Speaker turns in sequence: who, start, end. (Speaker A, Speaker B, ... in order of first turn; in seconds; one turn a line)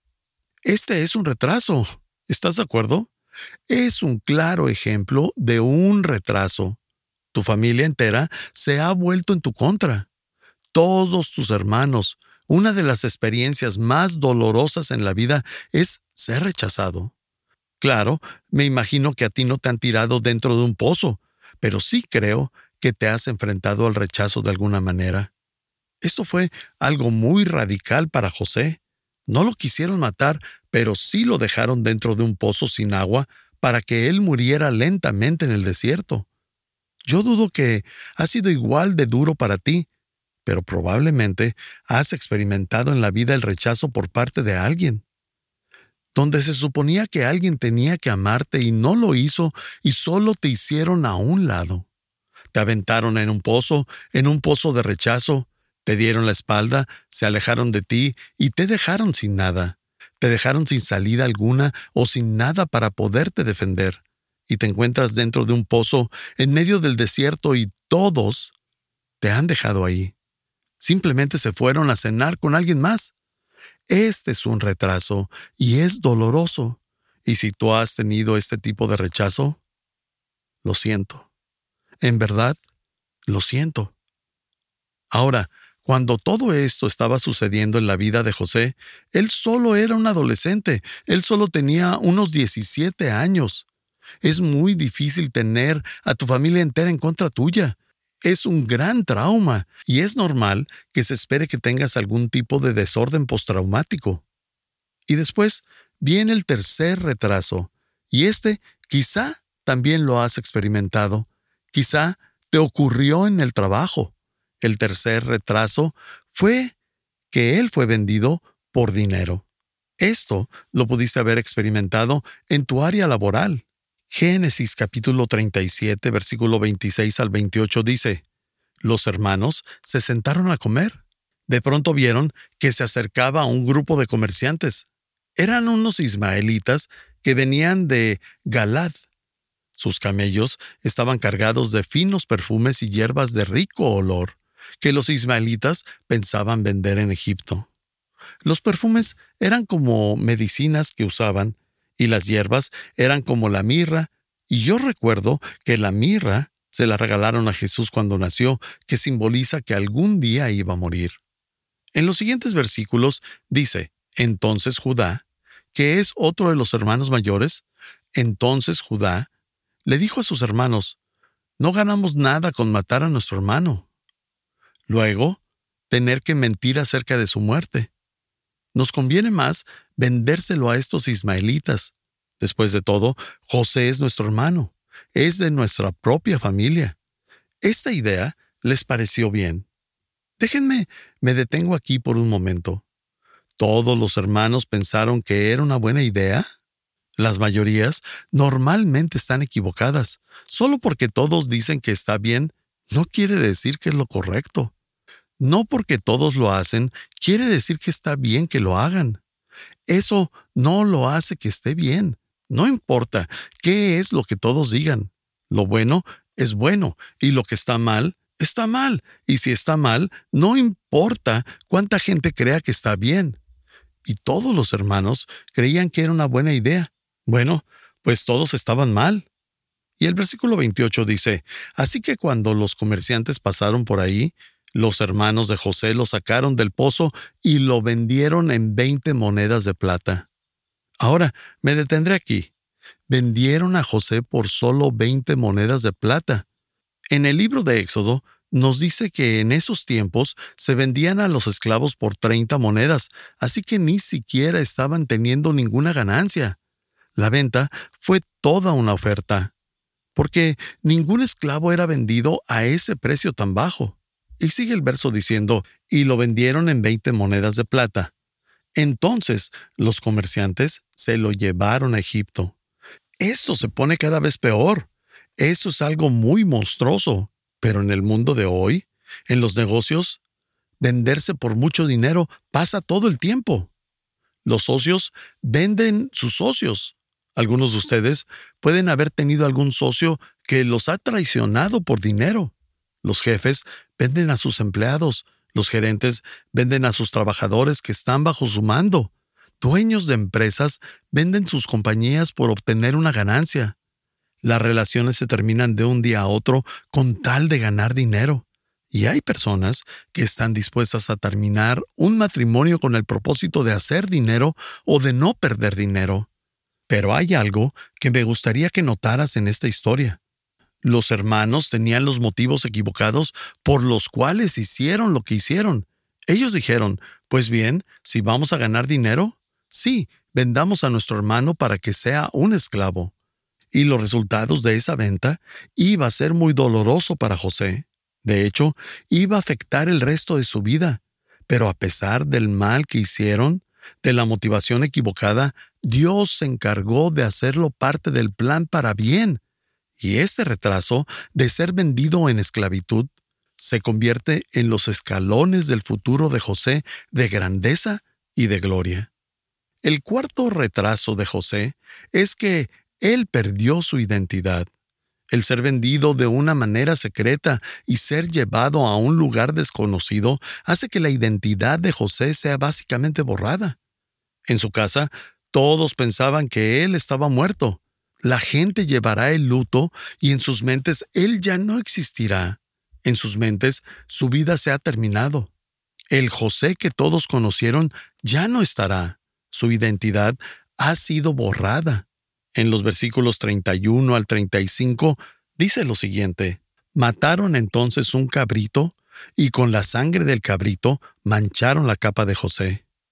Speaker A: 0.7-3.1
Speaker A: 3.7-6.8
Speaker A: 7.3-10.1
Speaker A: 10.7-17.1
Speaker A: 17.8-25.3
Speaker A: 26.0-36.2
Speaker A: 37.0-39.9
Speaker A: 40.5-45.0
Speaker A: 46.1-51.9
Speaker A: 52.5-68.5
Speaker A: 69.2-70.1
Speaker A: 70.8-73.1
Speaker A: 73.9-79.6
Speaker A: 80.6-81.3
Speaker A: 82.0-82.6
Speaker A: 83.3-83.9
Speaker A: 85.1-93.7
Speaker A: 94.2-104.2
Speaker A: 105.1-116.7
Speaker A: 117.3-119.4
Speaker A: 120.0-128.2
Speaker A: 128.8-134.8
Speaker A: 135.4-139.0
Speaker A: 139.8-147.7
Speaker A: 148.4-161.2
Speaker A: 161.9-167.6
Speaker A: 168.1-169.3
Speaker A: 169.8-171.0
Speaker A: 171.6-173.8
Speaker A: 174.9-177.9
Speaker A: 178.7-186.9
Speaker A: 187.6-189.7
Speaker A: 190.4-192.8
Speaker A: 193.6-196.5
Speaker A: 197.2-204.7
Speaker A: 205.4-209.2
Speaker A: 209.9-223.4
Speaker A: 224.1-229.2
Speaker A: 230.0-240.2
Speaker A: 241.0-242.5
Speaker A: 243.1-246.4
Speaker A: 247.1-256.6
Speaker A: 257.1-259.5
Speaker A: 260.1-268.1
Speaker A: 268.8-272.5
Speaker A: 273.2-280.2
Speaker A: 280.8-283.7
Speaker A: 284.4-303.8
Speaker A: 304.4-316.3
Speaker A: 316.9-320.2
Speaker A: 320.8-333.1
Speaker A: 333.7-349.4
Speaker A: 350.0-359.1
Speaker A: 359.8-364.7
Speaker A: 365.3-373.8
Speaker A: 374.5-385.5
Speaker A: 386.1-402.8